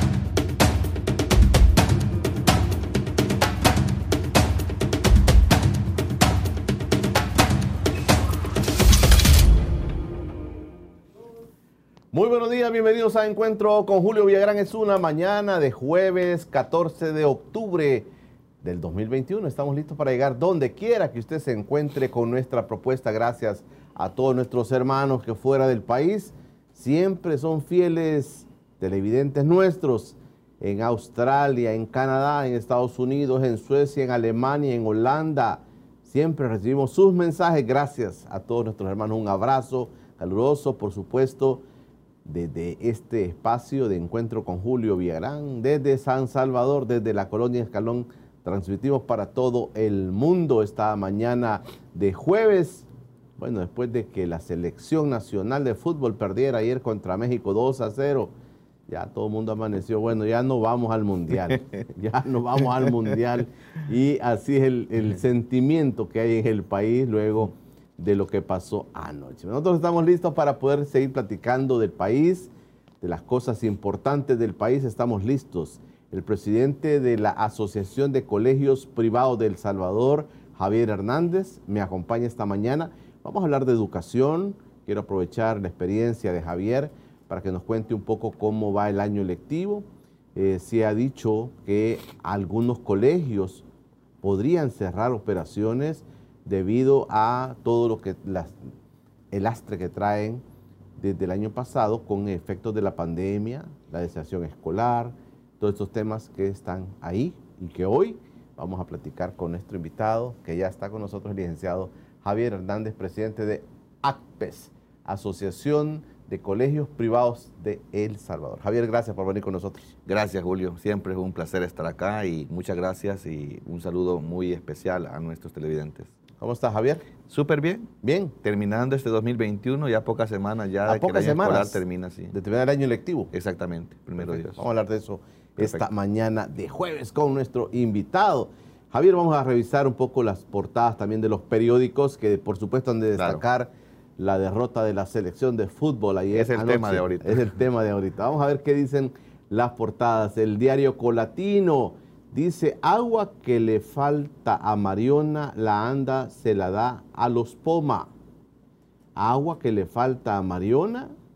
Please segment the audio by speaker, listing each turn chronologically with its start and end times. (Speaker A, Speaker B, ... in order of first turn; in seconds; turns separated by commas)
Speaker A: 12.1-18.1, Speaker A: 18.6-41.6, Speaker A: 42.2-52.9, Speaker A: 53.4-58.3, Speaker A: 58.9-93.6, Speaker A: 94.2-98.6, Speaker A: 99.3-100.4, Speaker A: 101.0-119.9, Speaker B: 120.0-126.1, Speaker A: 126.4-127.0, Speaker B: 127.3-127.9, Speaker A: 128.0-128.3, Speaker B: 128.4-132.3, Speaker A: 130.8-133.3, Speaker B: 133.3-134.6, Speaker A: 134.2-158.1, Speaker B: 135.6-135.8, Speaker B: 143.2-143.4, Speaker B: 146.3-147.5, Speaker A: 159.2-161.1